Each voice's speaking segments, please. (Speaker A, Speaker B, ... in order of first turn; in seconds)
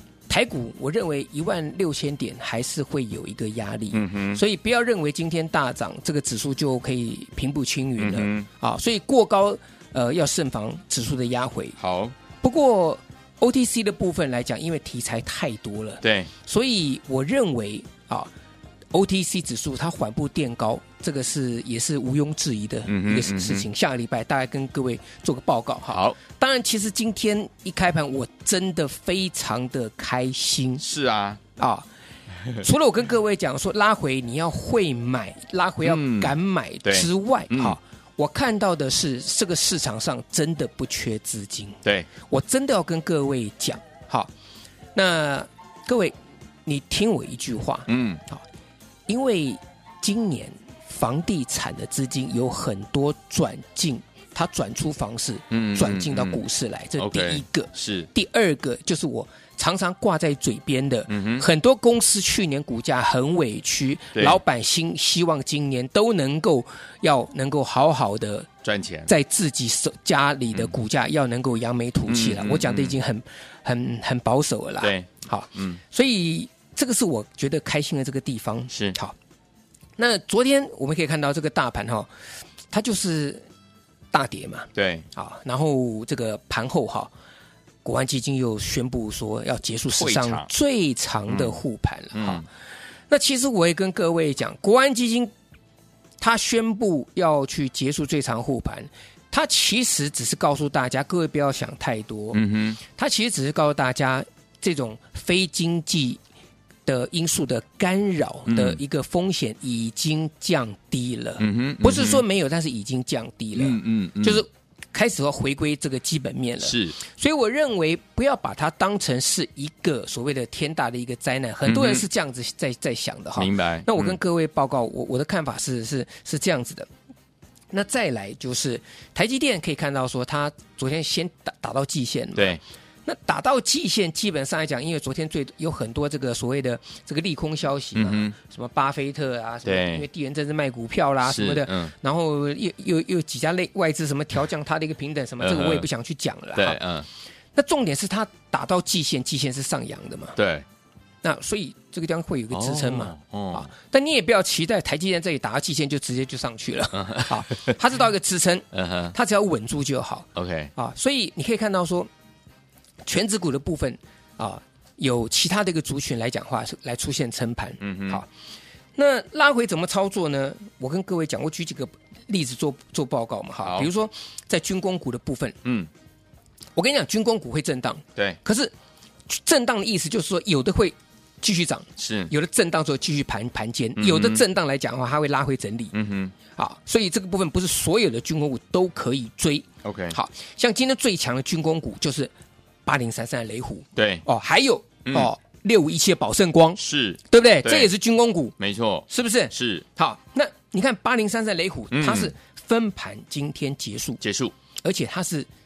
Speaker A: 0.3-11.8, 12.4-18.3, 18.9-30.8, 31.6-31.9, 32.5-44.3, 45.0-48.4, 49.1-68.5, 69.1-79.2, 80.0-82.1, 82.7-83.5, 84.1-87.1, 87.8-92.5, 93.1-95.3, 96.2-106.2, 106.9-126.9, 127.7-146.8, 147.5-150.4, 151.2-162.1, 163.0-168.3, 169.0-175.6, 176.8-178.7, 179.3-185.9, 186.5-192.3, 192.8-198.5, 199.1-204.2, 204.8-205.5
Speaker B: 3.9-4.4, 8.0-8.5, 11.8-12.1, 16.0-16.3, 22.9-23.7, 25.9-26.2, 30.8-31.4, 35.8-37.8, 47.9-48.2, 55.5-56.4, 57.0-58.1, 61.1-61.5, 64.2-64.4, 68.6-69.1, 72.1-73.0, 74.8-75.8, 78.7-79.0, 84.8-85.1, 89.9-90.5, 91.3-91.6, 92.1-92.4, 102.3-102.8, 108.5-108.8, 111.4-112.2, 113.5-114.4, 116.6-117.0, 121.7-122.0, 123.3-124.2, 137.9-138.3, 139.7-140.0, 141.2-141.9, 145.4-145.9, 146.6-147.1, 150.4-150.7, 152.5-153.7, 157.0-157.8, 158.7-159.1, 160.3-160.7, 167.8-168.2, 173.6-173.9, 182.0-182.3, 184.0-184.4, 185.9-186.3, 189.8-190.2, 194.0-194.2, 196.8-197.9, 198.6-199.8, 201.9-202.3, 204.2-204.5